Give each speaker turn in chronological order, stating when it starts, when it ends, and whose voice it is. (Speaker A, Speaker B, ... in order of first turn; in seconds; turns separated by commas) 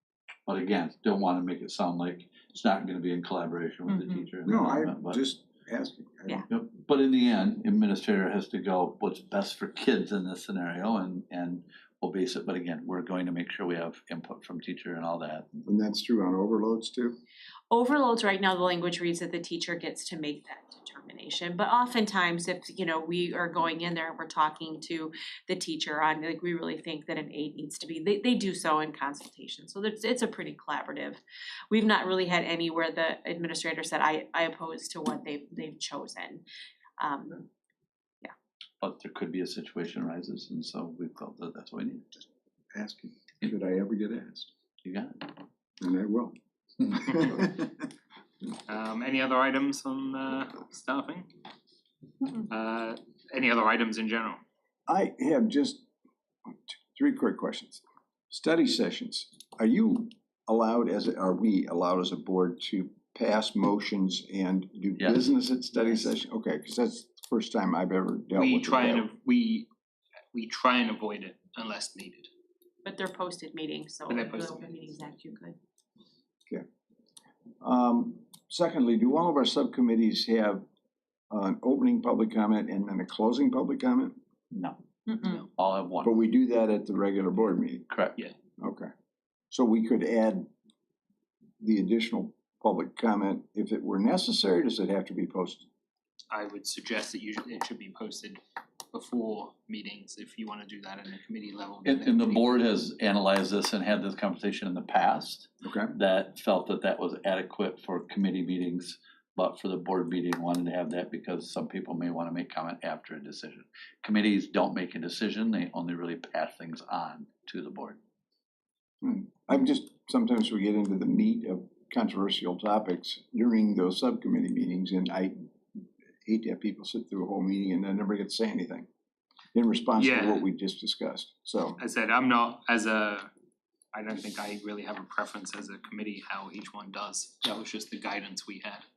Speaker A: 0.5-5.2, Speaker B: 4.4-6.4, Speaker A: 6.5-15.6, Speaker B: 15.7-17.1, Speaker C: 17.7-31.2, Speaker C: 31.7-36.4, Speaker C: 37.0-37.4, Speaker A: 38.8-42.1, Speaker B: 42.7-44.5, Speaker A: 44.8-45.2, Speaker B: 45.8-46.3, Speaker B: 46.9-47.8, Speaker D: 48.7-51.3, Speaker D: 52.3-54.4, Speaker B: 54.9-55.8, Speaker B: 56.5-69.1, Speaker A: 65.0-65.3, Speaker D: 68.3-69.7, Speaker D: 70.3-72.3, Speaker C: 72.8-75.5, Speaker D: 74.1-74.7, Speaker B: 77.6-80.6, Speaker B: 81.3-84.2, Speaker A: 84.5-84.8, Speaker A: 85.5-86.1, Speaker B: 86.0-87.8, Speaker A: 87.9-88.1, Speaker B: 88.6-88.9, Speaker B: 89.5-90.5, Speaker B: 91.6-95.7, Speaker D: 96.3-98.4, Speaker D: 98.9-102.5, Speaker A: 101.8-118.0, Speaker B: 105.6-105.9, Speaker B: 119.0-128.9, Speaker B: 129.5-131.8, Speaker D: 129.9-130.4, Speaker D: 131.8-133.3, Speaker D: 133.9-138.8